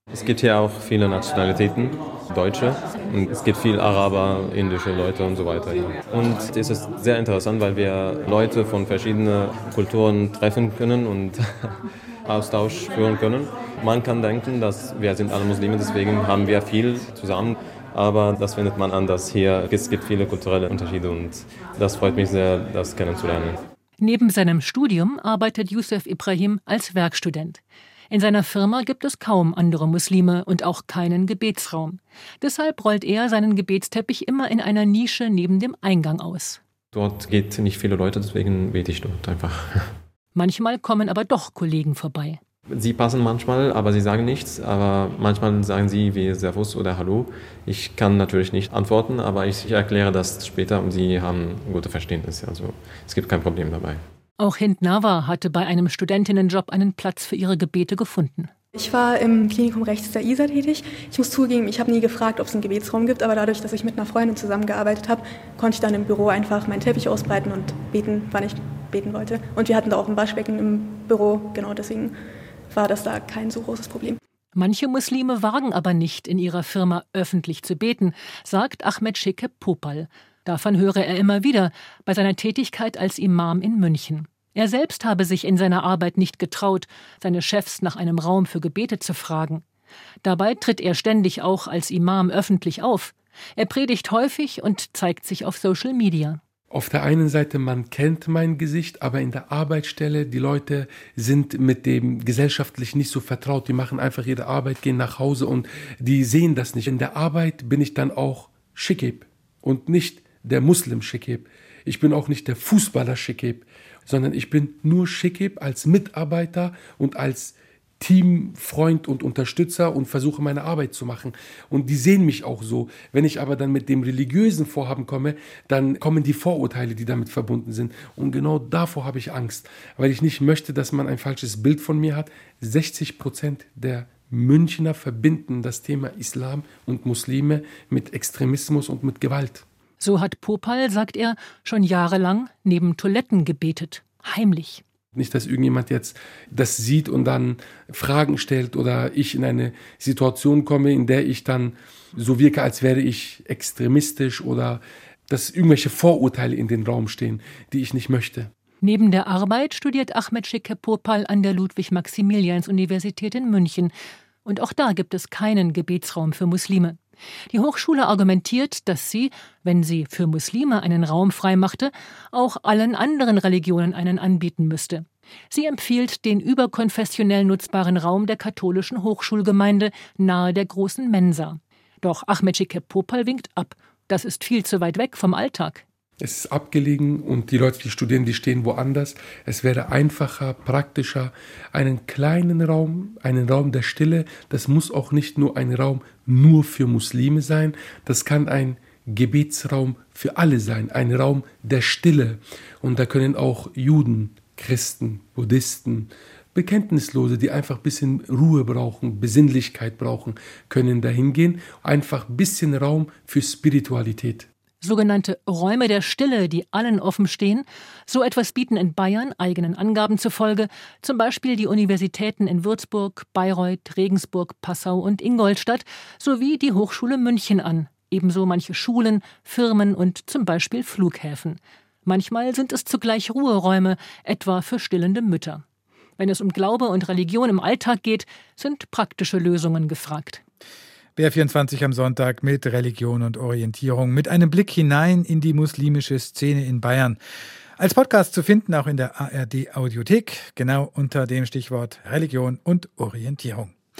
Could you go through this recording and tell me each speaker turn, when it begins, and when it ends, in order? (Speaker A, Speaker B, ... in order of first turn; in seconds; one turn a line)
Speaker A: 0.1-23.6
Speaker B: 24.0-36.6
Speaker A: 36.9-39.9
Speaker B: 40.4-42.4
Speaker A: 42.7-54.0
Speaker B: 54.4-58.5
Speaker C: 58.8-72.2
Speaker C: 72.7-74.2
Speaker B: 74.6-89.6
Speaker B: 90.2-96.4
Speaker D: 96.7-139.7
Speaker B: 140.0-144.8
Speaker D: 145.2-158.5
Speaker B: 158.8-163.9
Speaker B: 164.4-167.0
Speaker B: 167.5-185.8
Speaker D: 186.2-214.5
Speaker B: 214.8-235.6
Speaker B: 236.2-240.4
Speaker E: 241.2-247.2
Speaker E: 247.8-253.7